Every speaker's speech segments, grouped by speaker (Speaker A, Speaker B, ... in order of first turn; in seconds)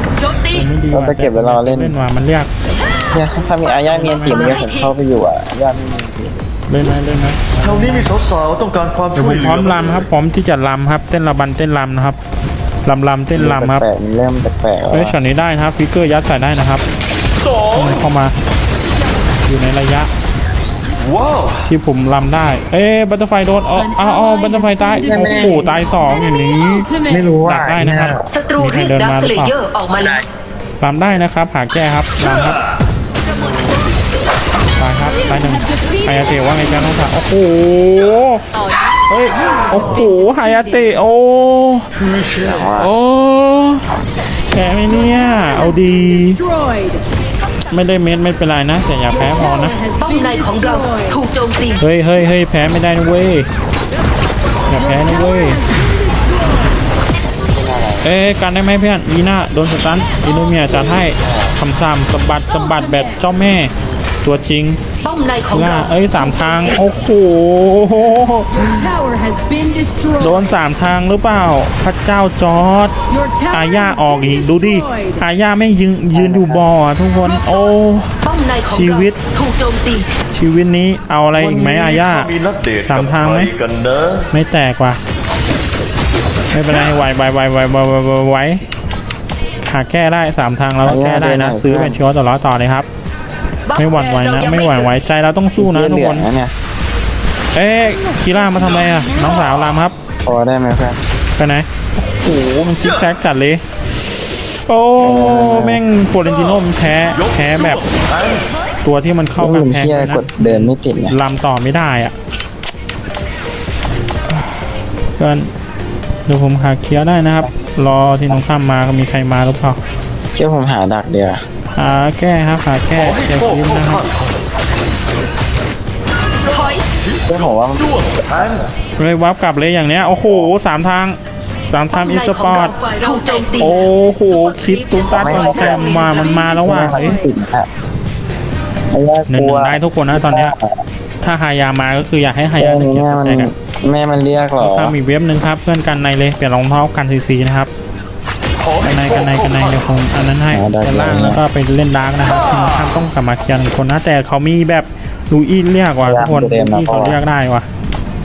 Speaker A: 0.2-0.7, 3.7-4.9, 28.3-30.2, 50.0-51.8, 65.0-66.7, 78.2-80.1, 93.7-94.9, 126.5-126.8, 131.9-136.8
Speaker B: 0.5-2.5, 4.2-4.6, 6.7-8.1, 9.1-12.2, 12.8-13.8, 14.9-16.8, 17.7-18.3, 19.4-20.1, 21.6-26.9, 27.4-29.5, 30.8-32.6, 34.8-38.4, 39.1-41.9, 42.7-44.0, 44.5-46.4, 47.7-49.8, 51.8-53.5, 54.7-55.6, 58.0-63.7, 64.2-64.8, 65.5-68.9, 70.2-72.9, 73.5-79.2, 80.3-82.3, 82.8-83.5, 84.3-85.0, 86.5-88.6, 89.6-92.9, 93.7-96.3, 97.5-99.9, 101.3-107.9, 108.8-112.1, 115.2-115.5, 116.2-119.8, 121.7-124.0, 129.0-131.2, 131.7-132.7, 133.6-137.2, 139.3-140.5, 141.2-143.5, 144.6-147.7, 148.8-157.7
Speaker C: 0.9-1.9, 3.1-6.4, 13.3-15.2, 24.9-25.7, 27.1-28.3, 42.4-42.9, 57.4-58.1, 61.1-61.4, 76.1-76.7, 90.8-92.0, 95.6-96.5, 100.2-101.0, 105.0-105.8, 109.4-111.2, 120.3-121.4, 127.3-128.7, 130.2-130.5, 135.1-136.0, 136.6-137.7, 138.9-140.8, 142.6-144.9, 150.5-151.4, 156.0-157.2
Speaker D: 7.6-10.1, 17.5-17.9, 20.9-21.7, 41.9-42.7, 81.3-84.3, 107.1-108.5, 122.9-124.5, 126.5-128.6, 148.6-149.9
Speaker E: 23.8-27.2, 35.5-36.4, 39.9-40.6, 45.2-47.0, 49.1-51.1, 54.8-56.7, 62.5-63.2, 68.5-70.5, 73.1-75.2, 136.1-137.2